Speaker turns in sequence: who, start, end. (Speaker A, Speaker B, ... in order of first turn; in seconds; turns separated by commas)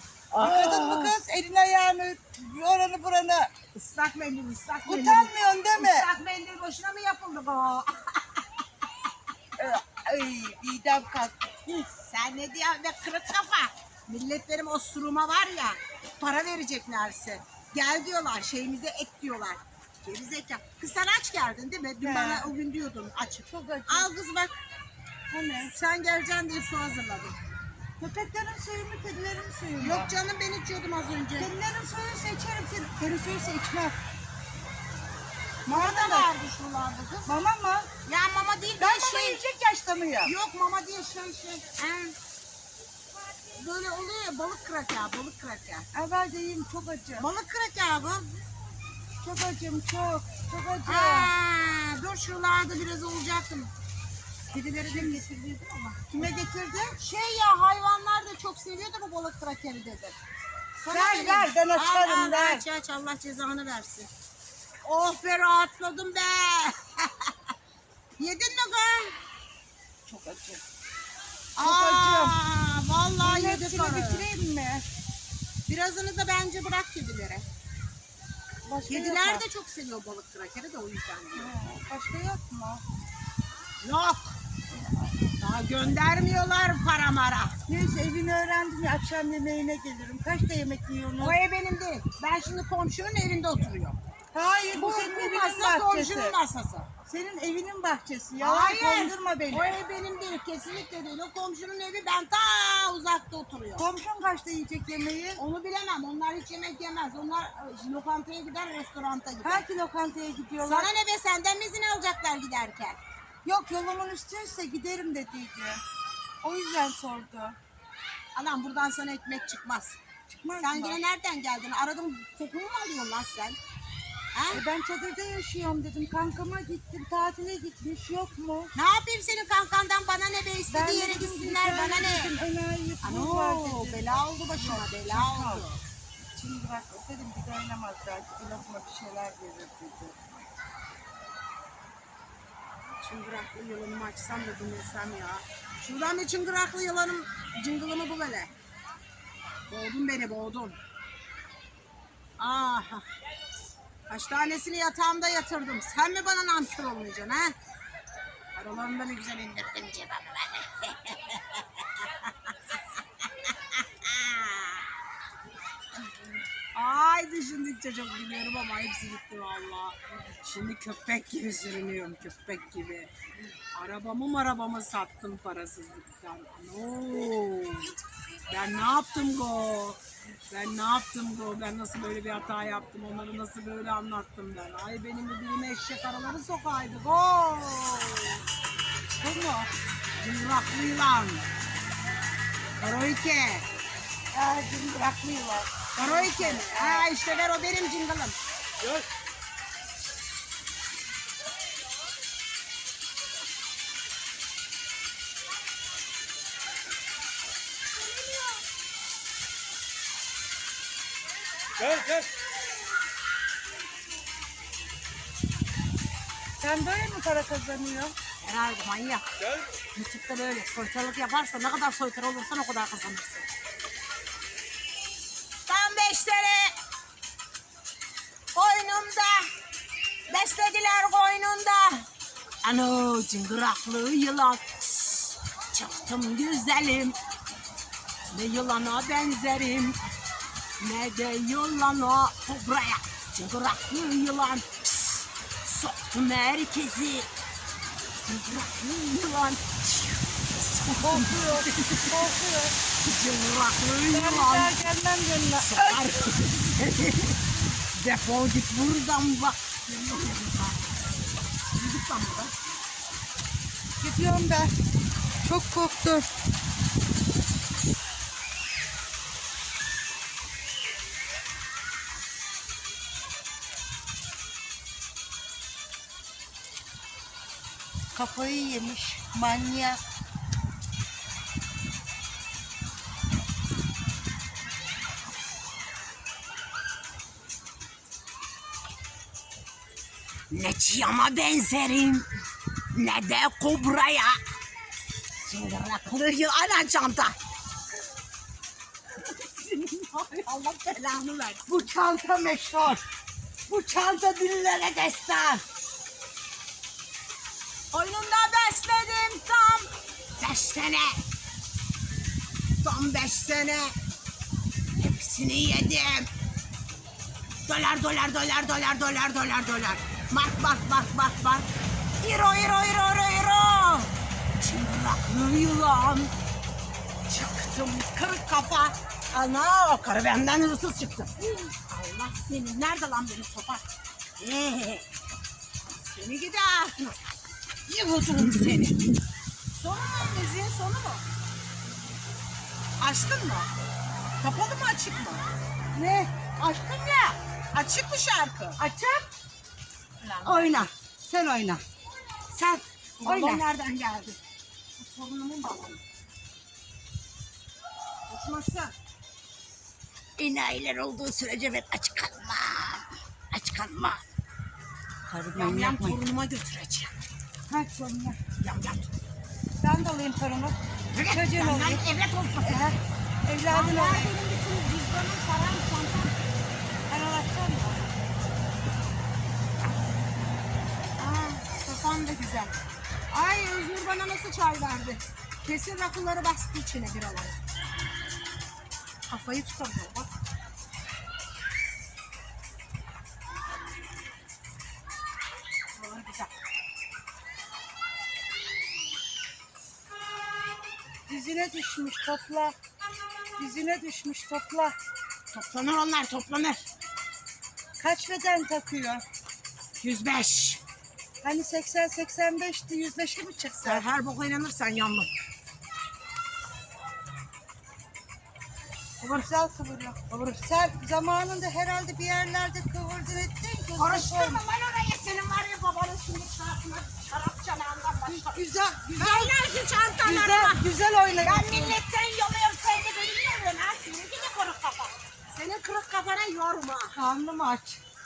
Speaker A: 0.3-1.1, Speaker B: 0.4-3.5, Speaker A: 3.7-8.4, Speaker B: 4.9-6.1, Speaker B: 9.6-11.9, Speaker A: 12.0-24.5, Speaker B: 22.0-22.5, Speaker B: 23.5-24.1, Speaker B: 25.3-25.7, Speaker A: 25.6-27.3, Speaker B: 28.0-30.1, Speaker A: 29.8-31.5, Speaker B: 31.4-33.9, Speaker A: 35.6-37.3, Speaker B: 35.7-36.3, Speaker B: 37.2-37.9, Speaker A: 38.0-39.4, Speaker B: 38.8-40.3, Speaker A: 40.2-42.1, Speaker A: 43.5-45.9, Speaker B: 45.9-47.3, Speaker A: 47.2-48.3, Speaker B: 49.2-51.3, Speaker A: 50.8-53.7, Speaker A: 54.5-56.3, Speaker B: 54.8-55.2, Speaker B: 56.1-57.0, Speaker A: 57.0-60.1, Speaker A: 60.8-64.1, Speaker B: 60.9-62.6, Speaker A: 64.8-67.3, Speaker A: 68.2-69.2, Speaker B: 70.0-70.6, Speaker A: 71.5-74.2, Speaker B: 71.6-72.4, Speaker B: 73.2-74.8, Speaker A: 75.7-77.5, Speaker B: 78.6-79.4, Speaker A: 78.9-81.5, Speaker B: 81.3-82.8, Speaker A: 83.8-84.4, Speaker B: 84.7-85.2, Speaker A: 85.4-87.5, Speaker B: 87.7-91.4, Speaker A: 91.2-94.0, Speaker B: 94.3-96.3, Speaker A: 94.7-96.9, Speaker B: 97.1-99.8, Speaker A: 98.4-103.9, Speaker B: 103.8-105.4, Speaker A: 105.4-109.6, Speaker B: 109.4-110.9, Speaker A: 110.6-113.0, Speaker B: 113.4-115.8, Speaker B: 116.4-117.6, Speaker A: 118.3-120.0, Speaker B: 120.3-121.0, Speaker A: 120.6-123.6, Speaker A: 124.3-124.6, Speaker B: 124.5-128.7, Speaker A: 128.7-132.3, Speaker B: 130.7-135.6, Speaker A: 133.0-135.8, Speaker B: 136.3-140.2, Speaker A: 143.0-148.5, Speaker A: 149.7-150.8, Speaker A: 152.4-153.0, Speaker A: 154.1-157.5, Speaker A: 158.5-162.5, Speaker A: 163.2-164.9, Speaker A: 166.7-173.1, Speaker A: 173.7-177.9, Speaker A: 178.5-188.4, Speaker B: 189.2-189.7, Speaker A: 190.2-191.4, Speaker A: 192.8-193.7, Speaker B: 194.3-197.1, Speaker A: 195.9-198.4, Speaker B: 216.6-218.1, Speaker A: 218.4-219.3, Speaker A: 219.9-223.5, Speaker A: 225.7-226.7, Speaker A: 228.5-229.5, Speaker A: 230.3-232.1, Speaker A: 232.6-237.2, Speaker A: 238.3-240.0, Speaker A: 240.8-247.3, Speaker A: 248.2-252.3, Speaker B: 250.9-252.7, Speaker A: 253.0-254.8, Speaker B: 254.1-256.1, Speaker A: 255.6-262.5, Speaker B: 264.0-264.7, Speaker B: 265.4-266.3, Speaker B: 278.1-280.0, Speaker A: 290.5-292.3, Speaker A: 292.9-294.4, Speaker A: 295.4-297.3, Speaker A: 299.2-301.8, Speaker B: 301.7-303.0, Speaker B: 303.7-305.6, Speaker A: 307.9-311.2, Speaker A: 312.8-313.9, Speaker A: 315.0-316.3, Speaker A: 317.6-326.3, Speaker A: 327.3-333.8, Speaker A: 334.4-335.0, Speaker A: 335.9-337.2, Speaker A: 337.9-339.0, Speaker A: 339.7-341.2, Speaker A: 343.0-343.7, Speaker A: 344.4-345.4, Speaker A: 346.0-348.8, Speaker B: 348.8-349.3, Speaker B: 350.2-351.8, Speaker A: 350.3-350.9, Speaker B: 352.5-353.6, Speaker A: 353.2-354.4, Speaker A: 355.0-356.0, Speaker A: 358.3-358.9, Speaker B: 360.4-364.2, Speaker B: 365.3-366.2, Speaker A: 365.5-367.1, Speaker B: 367.7-368.4, Speaker A: 368.6-369.1, Speaker B: 369.8-372.0, Speaker A: 371.1-372.8, Speaker B: 372.6-374.4, Speaker A: 373.7-376.4, Speaker B: 377.1-378.1, Speaker A: 381.2-382.7, Speaker A: 383.3-387.6, Speaker A: 389.3-390.3, Speaker A: 395.9-396.5, Speaker B: 401.3-402.8, Speaker B: 403.6-404.9, Speaker A: 405.5-406.8, Speaker B: 408.0-409.2, Speaker A: 410.0-410.8, Speaker B: 411.4-414.1, Speaker A: 413.8-415.3, Speaker A: 419.2-419.5, Speaker B: 419.3-424.6, Speaker A: 420.3-420.6, Speaker A: 424.0-428.6, Speaker B: 428.2-429.5, Speaker A: 429.1-430.8, Speaker B: 430.2-432.0, Speaker A: 431.4-437.1, Speaker B: 437.1-438.0